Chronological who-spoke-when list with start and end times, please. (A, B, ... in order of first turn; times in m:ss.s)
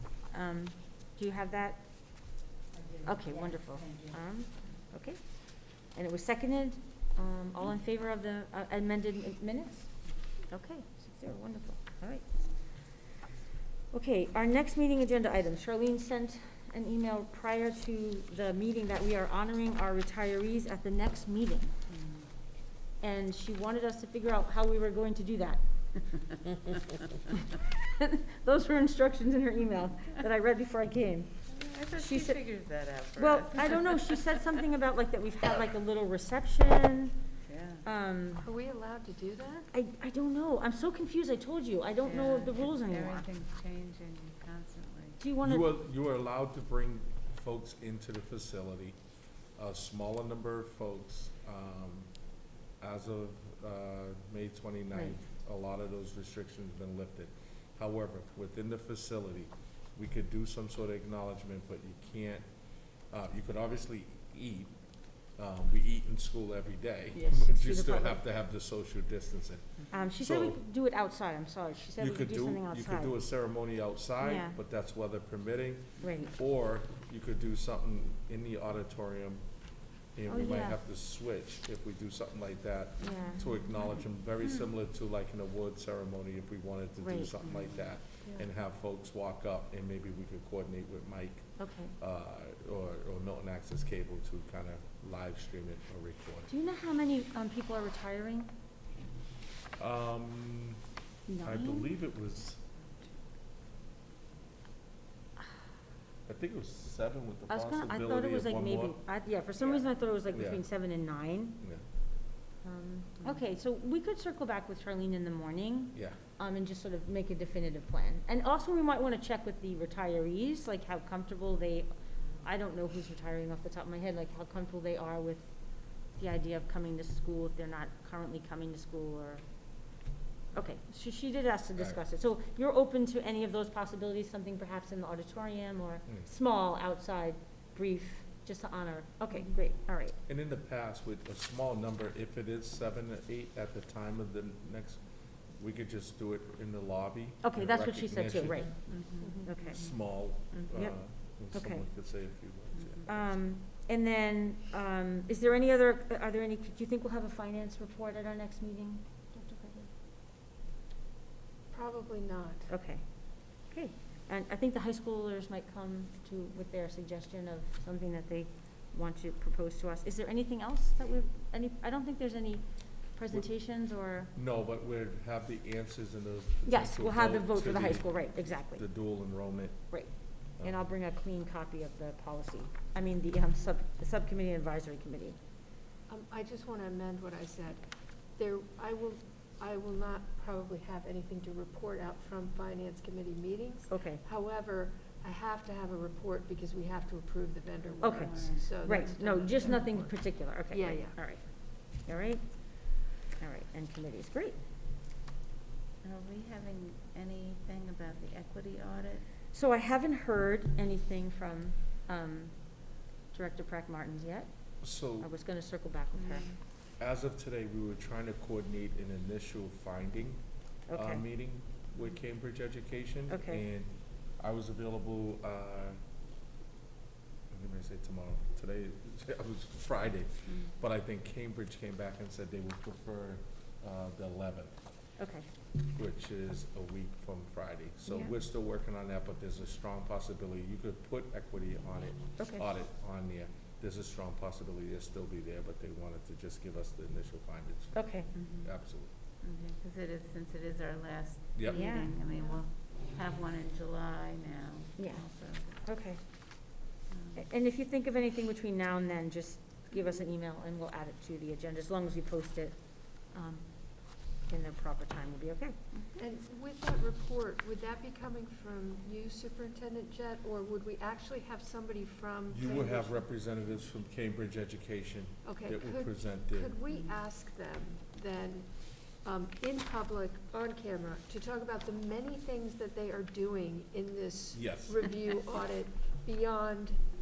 0:00.3-0:01.9 A
0:02.9-0:04.1 B
0:03.0-0:05.2 A
0:06.0-0:09.9 A
0:10.5-0:12.2 A
0:13.9-0:21.7 A
0:22.0-0:22.2 B
0:23.0-0:25.6 A
0:27.3-0:31.3 A
0:31.5-0:34.3 B
0:32.0-0:32.4 A
0:33.2-0:37.2 A
0:37.5-0:37.8 B
0:37.8-0:38.4 A
0:38.4-0:39.7 C
0:39.7-0:43.3 A
0:42.0-0:45.2 B
0:45.2-0:45.7 A
0:45.4-0:49.0 D
0:49.6-0:52.1 D
0:52.8-1:02.4 D
1:03.1-1:04.7 D
1:05.4-1:10.6 D
1:07.2-1:08.2 A
1:09.9-1:13.2 A
1:12.0-1:19.4 D
1:14.2-1:14.6 A
1:16.0-1:16.3 A
1:20.2-1:31.5 D
1:20.3-1:20.8 A
1:23.0-1:23.5 A
1:27.0-1:27.4 A
1:31.6-1:32.0 A
1:32.0-1:36.5 D
1:36.5-1:38.5 A
1:39.8-1:40.8 D
1:41.3-1:41.9 A
1:41.4-1:42.6 D
1:46.3-1:49.0 D
1:47.5-1:51.6 A
1:50.3-1:50.6 D
1:52.6-2:01.9 A
2:02.4-2:05.5 A
2:06.1-2:09.4 A
2:10.5-2:20.2 A
2:20.3-2:25.0 D
2:25.6-2:28.8 D
2:27.4-2:28.7 A
2:28.8-2:29.4 B
2:29.2-2:29.5 C
2:29.4-2:29.8 A
2:29.7-2:33.3 D
2:31.5-2:31.8 A
2:32.8-2:33.1 B
2:33.1-2:39.9 A
2:41.7-2:42.7 C
2:42.7-2:43.0 A
2:43.7-2:52.6 A
2:53.2-2:54.3 A
2:54.3-2:59.8 D
2:56.7-2:58.8 A
2:59.9-3:05.4 A
3:06.1-3:07.8 C
3:08.4-3:21.2 C
3:13.9-3:14.2 A
3:18.0-3:19.8 B
3:18.0-3:22.5 A
3:23.4-3:24.6 A
3:26.0-3:29.2 B
3:29.5-3:32.6 A
3:33.3-3:34.5 A
3:34.8-3:35.3 D
3:35.2-3:36.5 A
3:36.2-3:36.6 B
3:37.0-3:40.4 D
3:40.9-3:41.2 A
3:40.9-3:46.0 D
3:43.3-3:43.6 A
3:47.5-3:54.7 D
3:55.2-3:55.5 A
3:55.9-4:09.1 D
4:02.4-4:02.6 A
4:08.0-4:08.3 A
4:08.4-4:08.7 B
4:09.4-4:15.7 B
4:11.6-4:11.9 D
4:11.7-4:12.1 A
4:15.0-4:15.2 A
4:15.8-4:16.2 A
4:17.1-4:17.4 B
4:17.4-4:22.8 A
4:23.3-4:23.7 A
4:24.4-4:25.8 A
4:26.2-4:33.2 C
4:32.5-4:36.8 D
4:35.4-4:38.7 C
4:36.9-4:37.2 B
4:39.2-4:47.0 C
4:44.5-4:45.0 D